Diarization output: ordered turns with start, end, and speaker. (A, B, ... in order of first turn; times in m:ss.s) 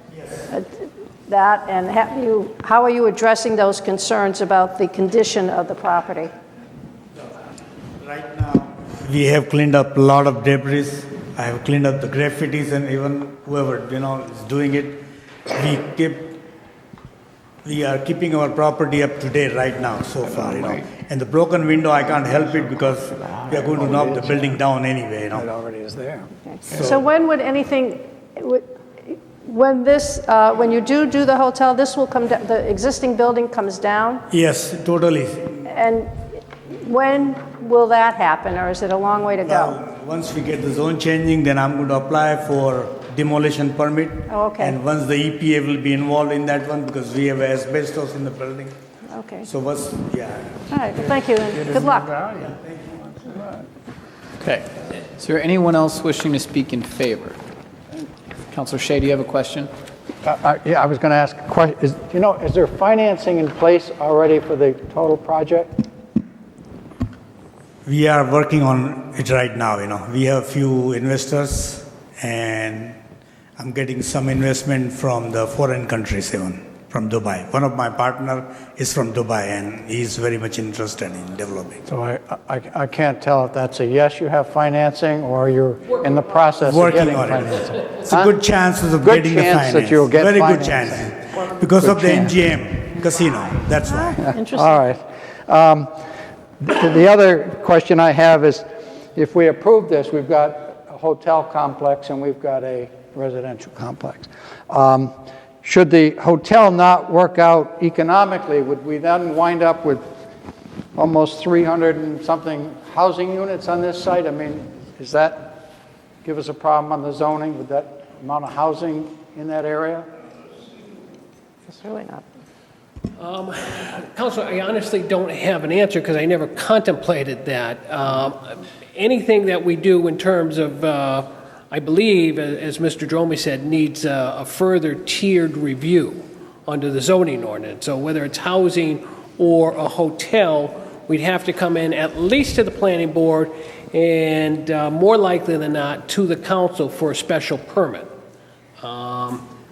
0:00.1-0:00.4 A
0:00.5-0:06.3 B
0:08.0-0:16.4 A
0:17.6-0:25.4 A
0:23.7-0:24.4 C
0:25.3-0:26.3 C
0:26.5-0:34.2 B
0:26.7-0:27.0 A
0:34.3-0:35.6 A
0:35.6-0:36.1 B
0:36.7-0:39.8 B
0:39.4-0:48.8 A
0:44.3-0:44.8 B
0:49.1-0:49.5 B
0:49.5-0:50.5 A
0:50.7-0:52.2 B
0:52.4-0:53.2 A
0:53.3-0:53.6 C
0:54.4-0:57.4 D
0:58.5-0:59.7 D
1:00.2-1:05.8 C
1:07.8-1:13.0 A
1:13.6-1:21.8 A
1:21.9-1:28.4 C
1:26.6-1:34.2 A
1:29.0-1:31.2 C
1:31.8-1:32.4 C
1:34.1-1:35.9 C
1:36.6-1:50.0 C
1:51.0-1:55.6 C
1:56.2-2:00.1 C
2:01.7-2:02.2 B
2:03.2-2:28.1 E
2:28.8-2:29.4 E